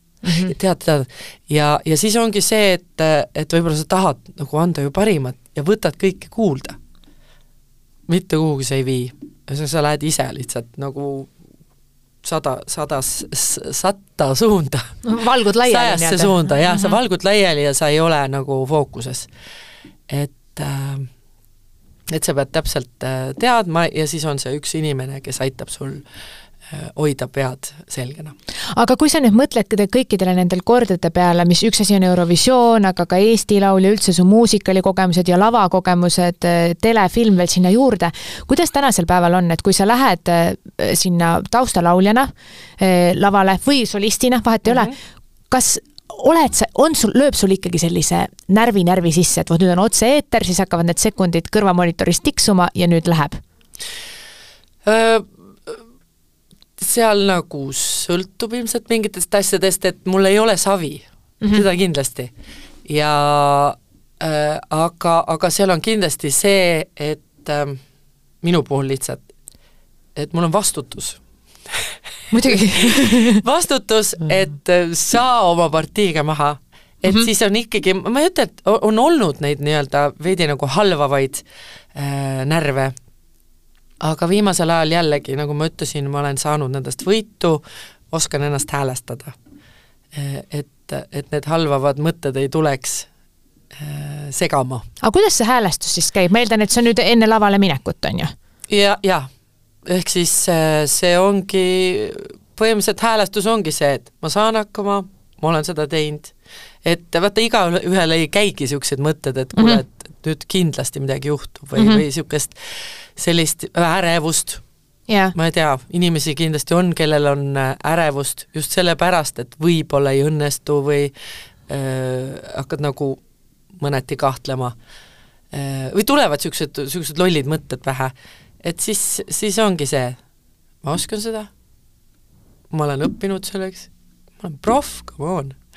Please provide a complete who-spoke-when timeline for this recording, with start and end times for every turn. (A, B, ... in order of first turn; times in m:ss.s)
0:00.2-0:00.5 A
0:00.3-0:06.8 B
0:08.1-0:11.3 B
0:12.2-0:15.0 B
0:15.0-0:17.0 A
0:15.6-0:19.3 B
0:20.1-0:21.1 B
0:22.1-0:26.0 B
0:26.7-0:28.4 B
0:28.7-0:44.9 A
0:44.7-0:44.9 B
0:45.5-0:53.4 A
0:54.8-0:55.8 B
0:56.8-1:02.3 B
1:02.8-1:07.8 B
1:08.4-1:09.3 B
1:10.2-1:23.0 B
1:12.3-1:13.4 A
1:24.0-1:29.4 B
1:30.1-1:33.1 B
1:33.7-1:34.8 B
1:35.0-1:38.3 A
1:38.7-1:39.3 B
1:39.8-1:46.3 B
1:46.8-1:54.6 B
1:49.6-1:49.8 A
1:51.8-1:52.0 A
1:55.1-1:55.4 A
1:55.4-2:01.1 B
2:01.7-2:03.2 B
2:03.8-2:04.8 B
2:05.5-2:10.2 B
2:10.8-2:11.5 B
2:12.7-2:15.6 B